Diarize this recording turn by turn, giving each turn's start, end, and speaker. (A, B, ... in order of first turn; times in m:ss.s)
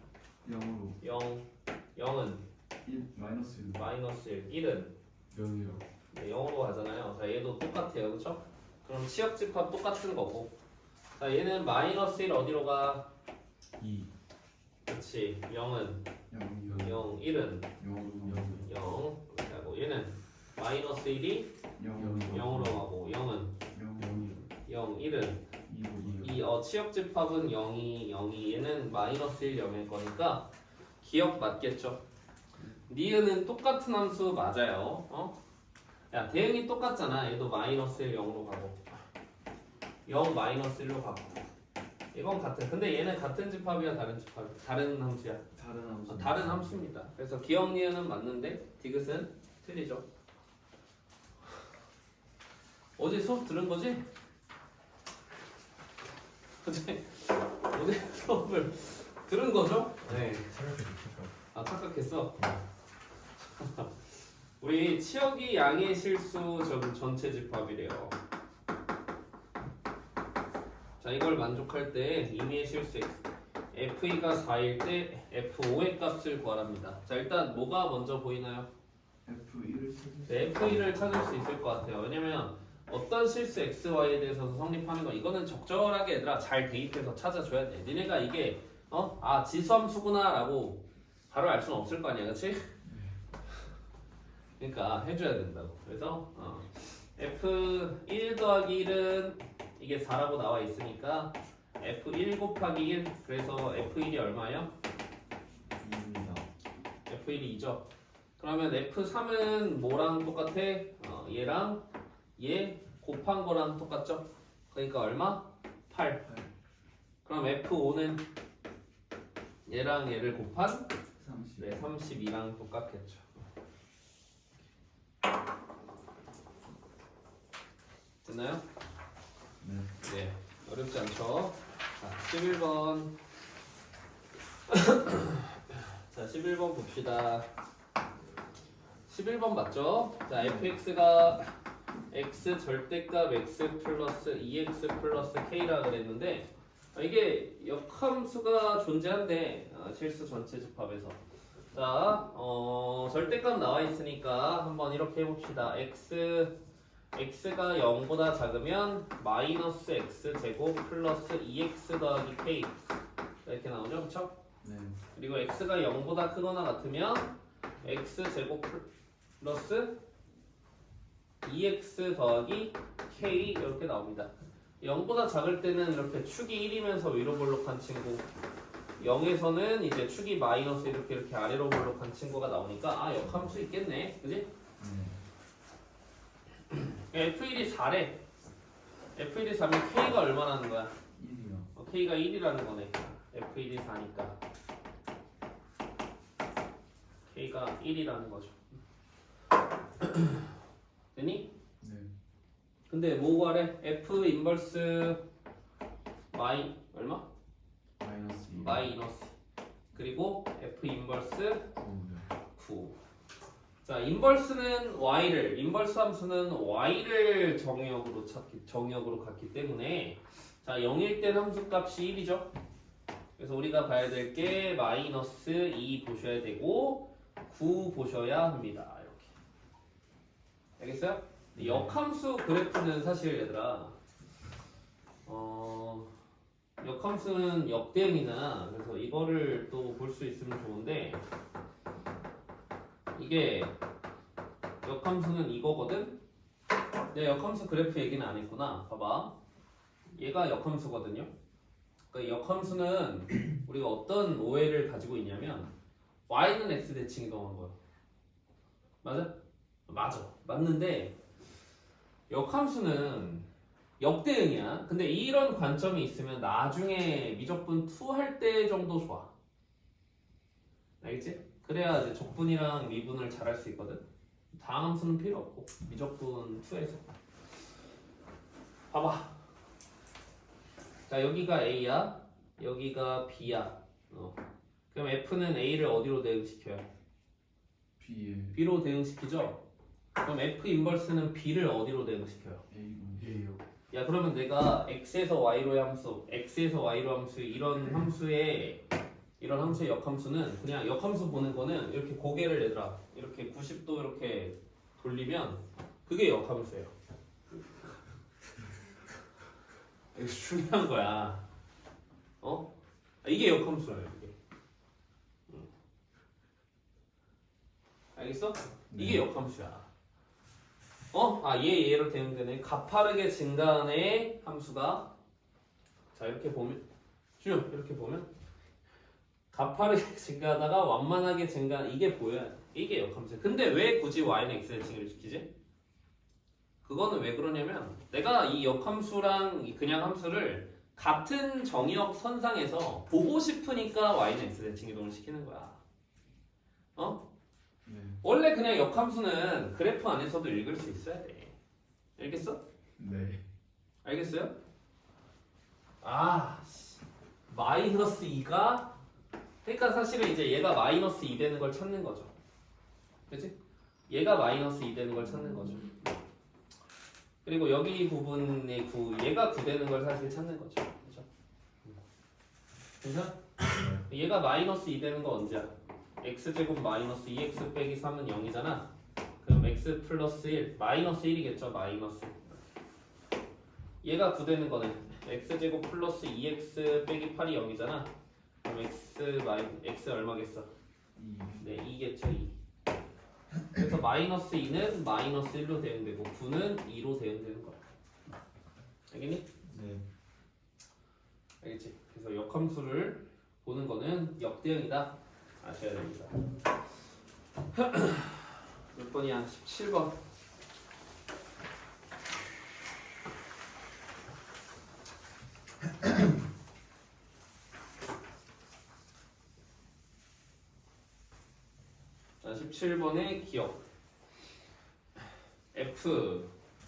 0:00.4-0:01.0 A
0:01.0-0:02.4 B
0:02.8-0:03.8 A
0:03.7-0:04.9 B
0:05.3-0:05.8 A
0:06.1-0:10.5 B
0:11.2-0:13.1 B
0:13.8-0:14.1 A
0:14.9-0:16.1 B
0:16.3-0:17.0 A
0:16.8-0:17.7 B
0:17.8-0:18.7 A
0:18.2-0:18.6 C
0:18.5-0:21.5 B
0:21.8-0:22.8 A
0:22.0-0:22.7 C
0:22.3-0:23.6 B
0:23.7-0:24.1 A
0:24.0-0:24.5 C
0:24.6-0:25.4 B
0:25.6-0:26.4 A
0:26.2-0:30.5 B
0:31.0-0:32.0 B
0:32.9-0:35.4 B
0:36.1-0:38.8 B
0:40.0-0:41.4 B
0:42.1-0:45.4 B
0:45.5-0:46.7 A
0:46.1-0:50.0 B
0:53.0-0:54.0 B
0:56.6-1:00.5 B
1:00.1-1:01.3 C
1:01.5-1:02.6 B
1:03.4-1:08.2 B
1:11.0-1:18.7 B
1:19.2-1:21.3 A
1:20.3-1:32.6 B
1:32.8-1:33.2 A
1:34.6-1:44.7 B
1:45.8-1:46.5 A
1:47.1-1:47.8 B
1:48.4-1:51.8 B
1:52.4-1:56.2 B
1:56.2-1:56.5 A
1:57.2-1:58.2 B
1:59.6-2:00.9 B
2:01.2-2:02.0 A
2:01.6-2:03.2 B
2:08.2-2:08.6 B
2:09.6-2:09.9 A
2:10.0-2:13.1 B
2:14.7-2:17.5 B
2:19.1-2:21.5 B
2:20.4-2:20.7 A
2:22.1-2:31.2 B
2:31.7-2:36.5 B
2:37.1-2:42.8 B
2:43.4-2:44.4 B
2:44.6-2:45.0 A
2:45.1-2:48.9 B
2:49.4-2:49.9 B
2:51.4-2:58.2 B
2:59.0-3:04.5 B
3:04.8-3:05.2 A
3:06.7-3:08.2 B
3:09.2-3:11.0 B
3:11.1-3:11.7 A
3:11.7-3:14.4 B
3:17.3-3:18.8 B
3:20.0-3:20.4 B
3:21.1-3:21.5 B
3:21.8-3:22.1 A
3:22.9-3:25.2 B
3:26.3-3:27.3 B
3:28.0-3:28.9 A
3:28.5-3:29.4 B
3:29.9-3:31.7 B
3:31.8-3:32.3 A
3:32.5-3:33.0 B
3:33.8-3:42.5 B
3:43.4-3:49.3 B
3:50.8-3:54.0 B
3:51.5-3:51.9 A
3:55.2-3:56.1 B
3:56.8-4:01.2 B
4:03.1-4:03.8 B
4:04.8-4:06.2 B
4:07.1-4:09.4 B
4:10.1-4:11.3 B
4:12.1-4:15.7 B
4:16.3-4:17.8 B
4:19.0-4:19.3 B
4:19.9-4:21.2 B
4:22.3-4:23.4 B
4:24.0-4:29.3 B
4:31.0-4:37.1 B
4:38.9-4:39.3 B
4:41.1-4:44.4 B
4:44.9-4:46.9 B
4:48.0-4:48.6 A
4:48.5-4:49.6 B
4:50.2-4:52.6 B
4:52.7-4:53.4 A
4:53.2-4:53.6 C
4:53.9-4:58.8 B
4:59.4-5:06.9 B
5:10.1-5:11.4 B
5:12.4-5:12.7 B
5:13.2-5:14.3 B
5:18.1-5:19.9 B
5:18.9-5:19.2 A
5:21.1-5:25.1 B
5:26.1-5:26.8 B
5:27.4-5:28.3 B
5:29.5-5:35.5 B
5:36.8-5:45.8 B
5:47.0-5:47.2 B
5:47.8-5:48.2 A
5:48.2-5:51.6 B
5:52.2-5:52.6 B
5:53.0-5:53.4 A
5:54.0-5:54.5 B
5:56.0-5:58.9 B
5:59.6-6:02.3 B
6:03.3-6:03.6 B
6:04.1-6:06.0 B
6:07.4-6:11.3 B
6:13.0-6:18.9 B
6:13.7-6:14.0 A
6:19.4-6:22.6 B
6:24.0-6:28.1 B
6:28.6-6:30.7 B
6:31.1-6:31.7 A
6:31.6-6:32.5 B
6:33.7-6:37.8 B
6:39.1-6:39.4 B
6:39.7-6:40.0 A
6:41.6-6:46.4 B
6:47.7-6:50.2 B
7:02.4-7:03.8 B
7:05.7-7:06.5 B